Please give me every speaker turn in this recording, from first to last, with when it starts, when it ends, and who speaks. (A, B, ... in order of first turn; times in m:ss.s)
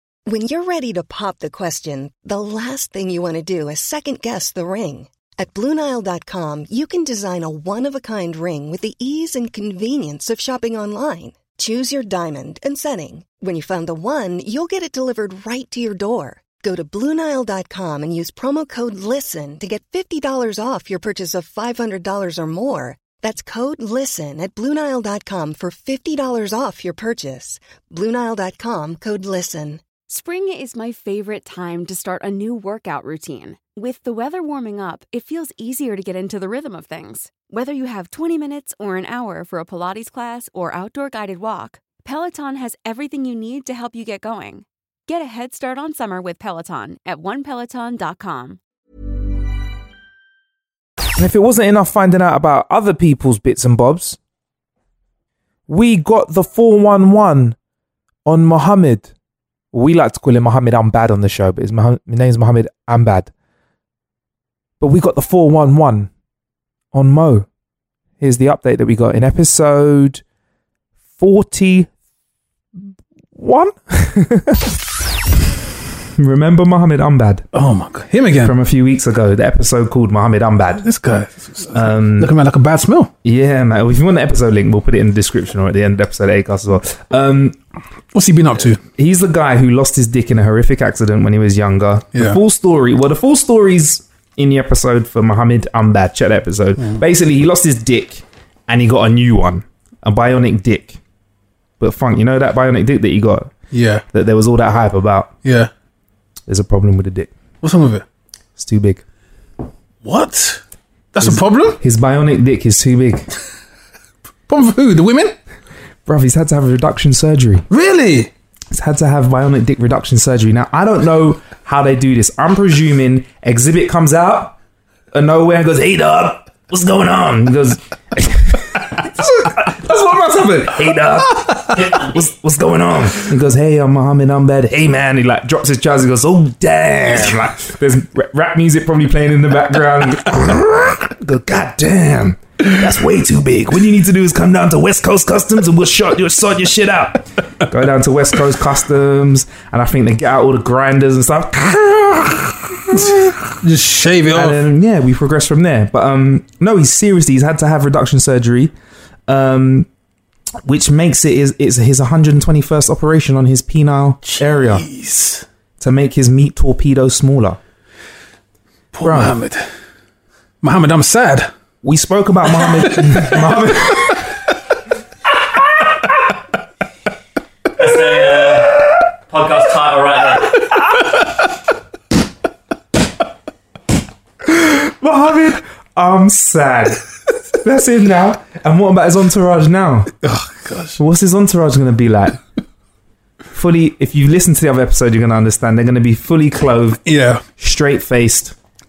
0:00.3-0:29.8 A
0:30.1-0:48.6 B
0:51.2-0:54.2 C
0:55.7-0:57.6 C
0:58.3-0:59.1 C
0:59.7-1:03.3 C
1:04.8-1:06.1 C
1:06.9-1:07.5 C
1:08.2-1:10.2 C
1:11.2-1:11.9 C
1:13.4-1:14.7 C
1:16.2-1:17.5 C
1:17.5-1:18.6 D
1:18.4-1:20.8 C
1:20.8-1:23.1 D
1:21.7-1:22.3 C
1:23.2-1:27.6 C
1:28.1-1:28.8 D
1:29.0-1:41.0 C
1:41.8-1:43.5 C
1:43.7-1:44.0 D
1:44.1-1:45.3 C
1:45.4-1:45.7 D
1:46.5-1:47.3 C
1:47.6-1:48.0 D
1:48.6-1:49.0 C
1:50.0-1:50.6 D
1:51.1-1:51.8 D
1:51.2-1:53.3 C
1:54.5-1:55.4 D
1:56.1-1:57.7 C
1:57.7-1:58.3 D
1:58.7-2:04.6 C
2:05.1-2:33.3 C
2:32.9-2:34.6 D
2:34.3-2:38.7 C
2:39.3-2:39.9 C
2:40.6-2:44.9 C
2:44.3-2:45.4 D
2:45.8-2:47.6 C
2:48.9-2:49.7 D
2:49.0-2:49.4 C
2:50.6-2:51.5 D
2:51.8-2:54.2 C
2:57.8-3:00.6 E
3:04.4-3:07.0 C
3:07.6-3:10.1 C
3:10.2-3:11.0 D
3:11.0-3:12.4 C
3:13.5-3:17.0 C
3:17.0-3:17.4 D
3:17.6-3:18.6 C